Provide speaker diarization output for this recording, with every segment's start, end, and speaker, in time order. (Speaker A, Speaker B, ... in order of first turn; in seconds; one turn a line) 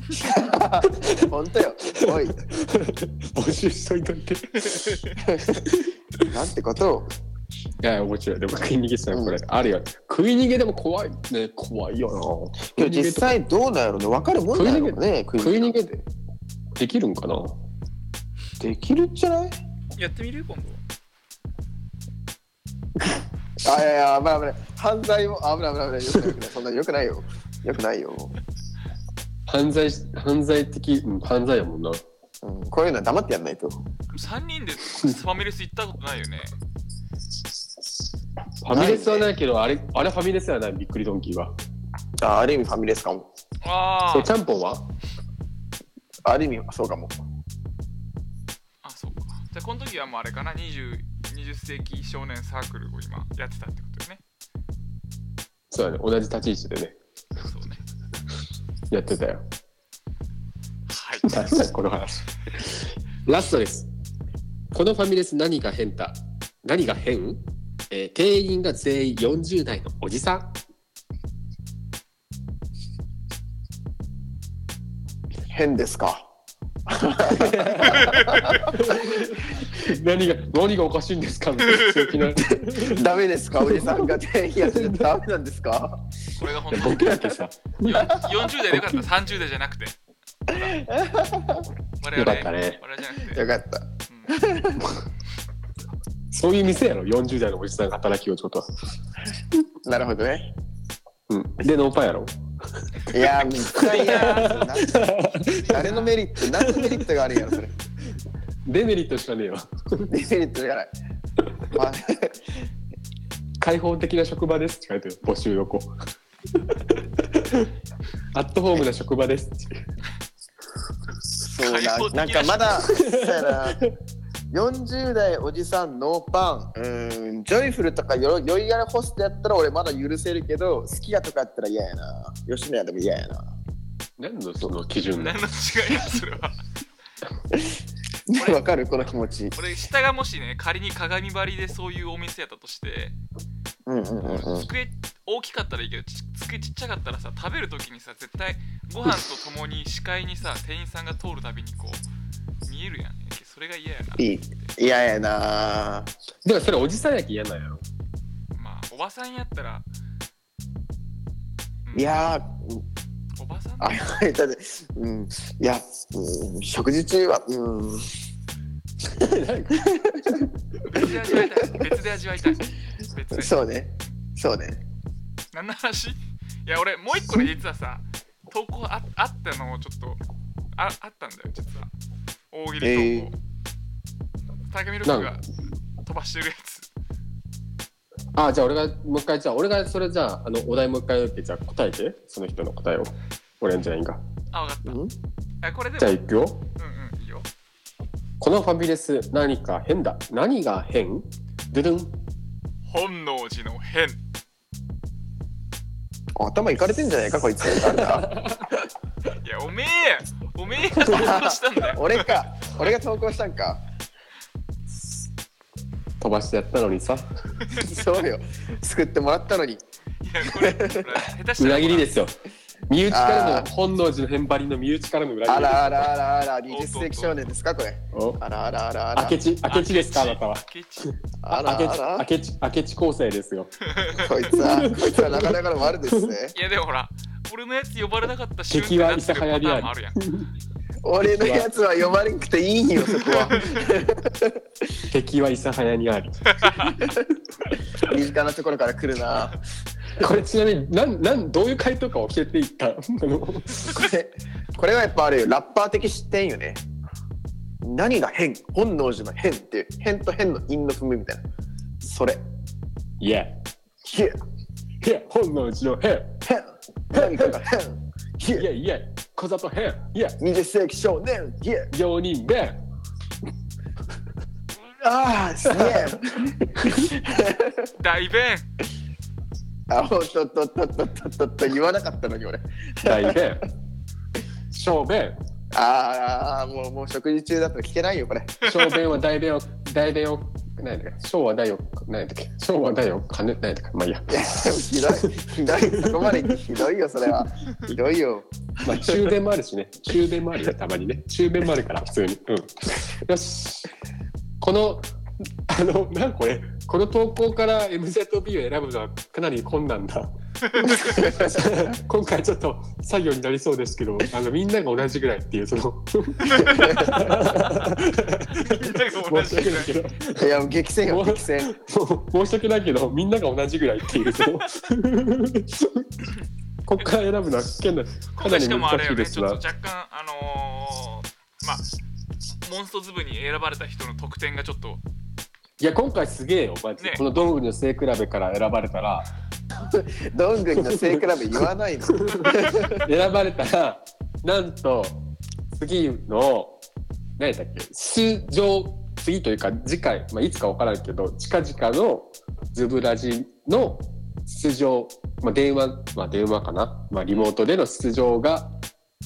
Speaker A: 0.2-2.4
Speaker B: 0.9-1.2
Speaker B: 1.9-5.0
Speaker A: 5.2-5.6
Speaker B: 5.6-5.9
Speaker A: 6.2-7.1
Speaker B: 7.8-13.4
Speaker A: 12.8-16.0
Speaker B: 14.5-15.9
Speaker B: 16.8-17.6
Speaker A: 18.6-19.5
Speaker C: 20.0-20.8
Speaker A: 23.6-28.4
Speaker B: 29.5-32.0
Speaker A: 32.4-33.8
Speaker C: 34.1-36.5
Speaker B: 38.6-41.5
Speaker A: 38.7-39.3
Speaker A: 42.2-43.3
Speaker C: 43.6-44.3
Speaker B: 44.1-44.9
Speaker A: 46.2-47.1
Speaker C: 48.8-54.2
Speaker B: 55.7-57.0
Speaker C: 57.4-57.8
Speaker B: 58.9-59.4
Speaker C: 60.9-61.3
Speaker B: 61.2-63.9
Speaker B: 64.7-70.5
Speaker A: 75.5-76.3
Speaker A: 76.9-79.1
Speaker B: 77.3-83.0
Speaker C: 78.0-78.5
Speaker C: 81.7-82.2
Speaker A: 82.6-86.0
Speaker B: 83.6-85.1
Speaker C: 86.4-87.3
Speaker B: 86.7-89.0
Speaker C: 87.8-89.9
Speaker C: 90.5-90.8
Speaker A: 90.5-91.7
Speaker C: 92.0-93.4
Speaker B: 92.1-92.8
Speaker A: 93.2-94.9
Speaker C: 94.1-94.4
Speaker B: 96.3-98.7
Speaker A: 99.8-100.5
Speaker B: 101.3-102.8
Speaker A: 103.1-107.7
Speaker C: 103.7-104.7
Speaker B: 103.7-106.0
Speaker C: 105.5-106.2
Speaker B: 106.5-107.0
Speaker B: 108.7-110.1
Speaker A: 110.1-110.9
Speaker A: 111.7-112.4
Speaker B: 113.6-115.9
Speaker B: 116.5-117.7
Speaker B: 118.3-119.8
Speaker A: 121.4-123.8
Speaker C: 121.6-122.9
Speaker B: 122.9-123.9
Speaker A: 124.5-133.5
Speaker B: 134.2-135.4
Speaker C: 135.1-136.6
Speaker A: 138.3-139.5
Speaker C: 138.3-138.6
Speaker C: 139.6-143.2
Speaker A: 143.9-144.7
Speaker C: 144.3-152.0
Speaker C: 152.7-154.7
Speaker A: 154.2-156.1
Speaker B: 156.4-157.8
Speaker C: 158.5-159.8
Speaker C: 161.8-162.2
Speaker A: 161.9-162.8
Speaker C: 163.4-164.0
Speaker A: 163.8-168.1
Speaker B: 169.0-170.4
Speaker A: 169.8-170.4
Speaker C: 170.9-173.6
Speaker A: 173.3-174.8
Speaker C: 175.5-180.2
Speaker C: 180.8-181.9
Speaker C: 182.5-183.3
Speaker A: 182.8-183.3
Speaker C: 184.7-185.4
Speaker B: 185.0-185.3
Speaker C: 186.0-186.9
Speaker B: 188.3-194.2
Speaker C: 194.5-195.0
Speaker A: 194.8-195.1
Speaker C: 195.6-196.2
Speaker B: 196.0-196.6
Speaker C: 196.8-197.4
Speaker B: 198.4-202.1
Speaker C: 202.9-204.2
Speaker A: 206.3-208.3
Speaker B: 207.9-208.6
Speaker C: 209.4-212.4
Speaker A: 211.0-213.8
Speaker B: 216.2-217.3
Speaker A: 217.7-219.8
Speaker C: 220.2-222.1
Speaker A: 220.4-221.1
Speaker B: 221.6-222.3
Speaker B: 222.9-226.1
Speaker A: 223.1-223.7
Speaker A: 225.5-229.4
Speaker C: 226.7-227.5
Speaker B: 228.1-228.4
Speaker B: 229.1-233.7
Speaker C: 229.7-231.1
Speaker A: 231.4-232.2
Speaker C: 233.9-234.3
Speaker A: 234.1-236.5
Speaker B: 234.5-236.3
Speaker C: 236.5-240.2
Speaker B: 238.7-240.5
Speaker A: 241.0-244.6
Speaker B: 241.2-241.7
Speaker B: 245.1-246.5
Speaker C: 246.6-246.9
Speaker A: 248.0-249.6
Speaker B: 250.2-253.9
Speaker A: 253.8-256.8
Speaker A: 257.8-261.4
Speaker A: 262.0-262.4
Speaker B: 263.2-263.5
Speaker A: 264.0-264.4
Speaker B: 265.0-266.3
Speaker A: 266.4-268.6
Speaker B: 267.1-267.6
Speaker B: 268.5-270.4
Speaker A: 270.4-271.9
Speaker B: 271.9-272.8
Speaker A: 275.0-277.9
Speaker B: 275.7-276.1
Speaker C: 278.0-278.7
Speaker A: 279.9-283.4
Speaker B: 283.0-283.6
Speaker B: 284.7-285.4
Speaker A: 285.7-288.6
Speaker B: 288.6-295.2
Speaker C: 288.6-289.0
Speaker A: 294.3-299.2
Speaker B: 295.8-296.6
Speaker B: 298.8-303.9
Speaker B: 304.6-305.0
Speaker B: 305.7-320.5
Speaker C: 310.7-311.1
Speaker A: 310.9-311.6
Speaker A: 316.6-317.1
Speaker C: 318.5-320.0
Speaker A: 320.4-321.7
Speaker B: 321.0-326.3
Speaker B: 326.9-329.6
Speaker C: 328.3-331.9
Speaker C: 332.6-335.0
Speaker B: 335.8-339.3
Speaker C: 337.0-337.2
Speaker A: 339.8-343.0
Speaker B: 340.7-341.2
Speaker B: 342.2-345.2
Speaker B: 345.7-346.8
Speaker B: 347.4-358.7